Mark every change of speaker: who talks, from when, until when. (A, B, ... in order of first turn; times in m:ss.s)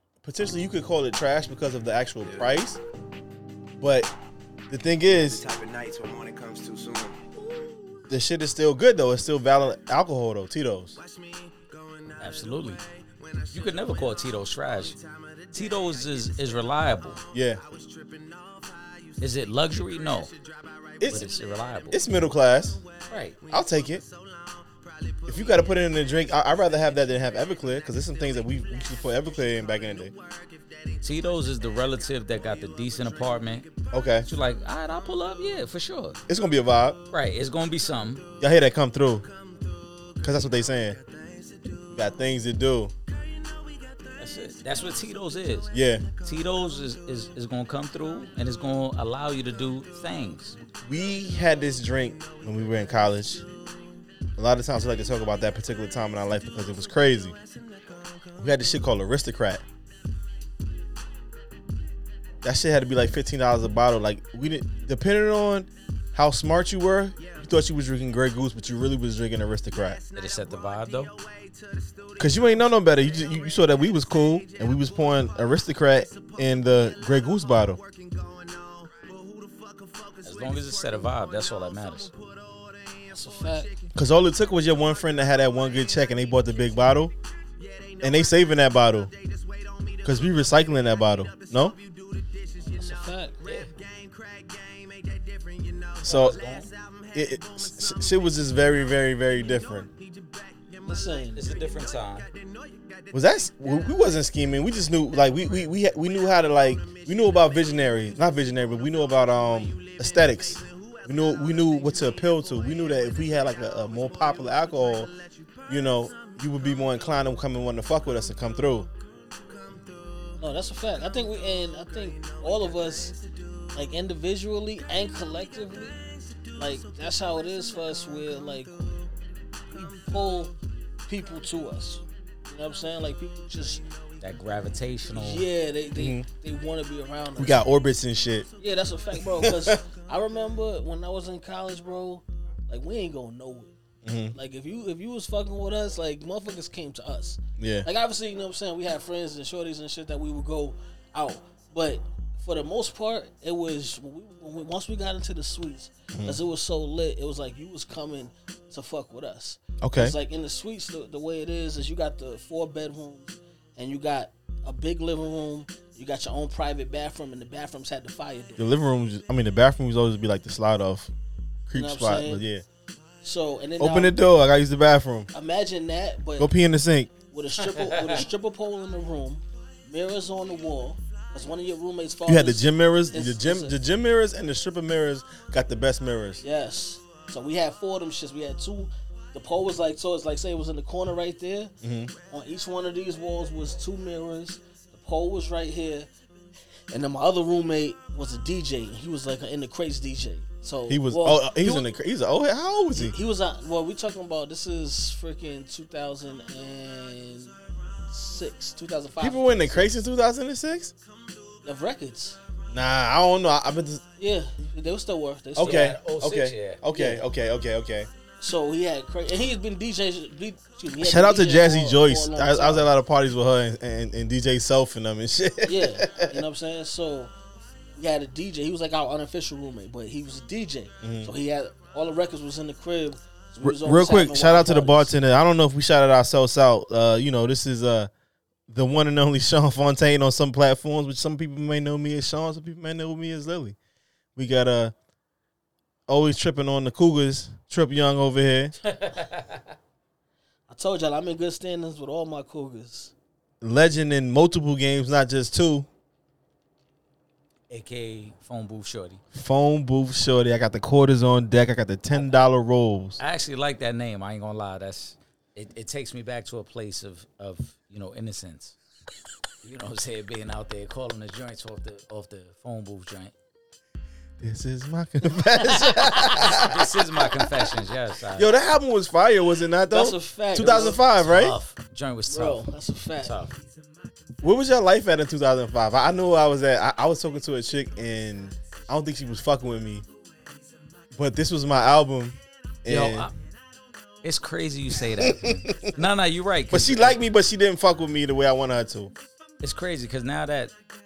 0:00.2-0:02.8 A
0:02.3-0:02.5 B
0:03.8-0:04.1 A
0:04.7-0:05.4 A
0:05.1-0:07.6 B
0:08.1-0:11.0 A
0:11.0-0:12.8 B
0:12.2-0:12.8 C
0:13.5-0:15.0 C
0:15.5-0:17.2 C
0:17.3-0:17.6 A
0:17.6-0:19.5 B
0:19.2-0:20.3 C
0:21.0-0:21.3 A
0:21.0-0:22.0 C
0:21.9-0:22.8 A
0:23.1-0:23.4 C
0:23.5-0:24.0 A
0:25.3-0:30.1 A
0:31.0-0:33.7 C
0:33.9-0:34.3 A
0:34.2-0:36.2 C
0:36.3-0:37.0 A
0:37.1-0:38.2 C
0:38.4-0:39.3 A
0:40.2-0:41.0 A
0:41.0-0:41.4 B
0:41.9-0:42.9 A
0:44.2-0:45.7 C
0:45.7-0:46.1 A
0:46.2-0:50.6 C
0:50.8-0:53.4 A
0:54.4-0:57.4 A
0:58.4-0:59.6 A
1:02.4-1:10.0 A
1:10.2-1:11.1 C
1:12.2-1:17.8 A
1:18.2-1:19.1 B
1:20.2-1:22.1 C
1:20.4-1:20.7 B
1:23.1-1:23.7 D
1:24.0-1:27.1 A
1:28.0-1:29.1 A
1:30.0-1:31.8 A
1:32.7-1:33.4 D
1:33.5-1:36.6 B
1:36.0-1:36.7 C
1:36.0-1:36.4 A
1:37.1-1:39.9 A
1:40.8-1:41.5 D
1:41.1-1:41.7 B
1:41.4-1:42.3 C
1:43.1-1:55.1 A
1:55.7-1:58.9 A
2:00.4-2:03.2 D
2:03.8-2:06.0 D
2:06.6-2:08.7 D
2:09.7-2:10.5 D
2:11.1-2:13.8 D
2:14.2-2:15.4 C
2:15.1-2:17.6 D
2:16.0-2:16.3 A
2:17.4-2:18.5 A
2:18.6-2:23.7 D
2:19.1-2:19.8 A
2:24.0-2:24.4 A
2:24.3-2:48.6 D
2:27.6-2:27.9 A
2:36.1-2:36.4 A
2:39.8-2:40.2 A
2:48.6-2:51.1 A
2:51.7-2:52.6 A
2:51.7-2:52.4 D
2:53.2-2:54.2 D
2:53.8-2:55.3 A
2:55.3-2:56.5 D
2:56.4-2:57.1 A
2:57.3-3:03.8 D
2:57.7-2:58.2 C
3:02.3-3:06.4 A
3:06.4-3:11.7 D
3:11.8-3:12.1 A
3:12.3-3:16.1 D
3:16.9-3:21.9 D
3:20.9-3:23.2 A
3:23.0-3:30.0 D
3:29.2-3:30.9 A
3:31.6-3:32.4 D
3:32.7-3:34.0 A
3:34.2-3:36.0 D
3:35.6-3:38.1 A
3:35.6-3:36.8 C
3:36.9-3:37.2 D
3:38.4-3:42.9 D
3:41.0-3:46.4 A
3:45.6-3:47.3 D
3:48.0-3:55.1 D
3:51.0-3:51.3 A
3:53.6-3:58.1 A
3:58.7-4:03.8 A
4:04.4-4:04.9 A
4:06.1-4:08.8 A
4:08.8-4:09.7 C
4:10.7-4:13.1 D
4:13.6-4:15.9 A
4:17.7-4:19.2 C
4:19.3-4:23.2 A
4:22.2-4:22.4 C
4:23.2-4:28.8 C
4:29.6-4:33.3 C
4:34.4-4:37.5 A
4:35.8-4:36.1 D
4:36.2-4:38.5 C
4:38.4-4:41.6 A
4:39.9-4:41.0 D
4:41.2-4:42.6 C
4:42.3-4:43.4 D
4:43.2-4:43.5 C
4:44.4-4:50.0 A
4:51.2-4:53.3 A
4:52.9-4:53.3 C
4:54.2-4:57.2 C
4:55.0-4:56.0 A
4:56.7-4:59.1 A
4:59.6-5:00.7 C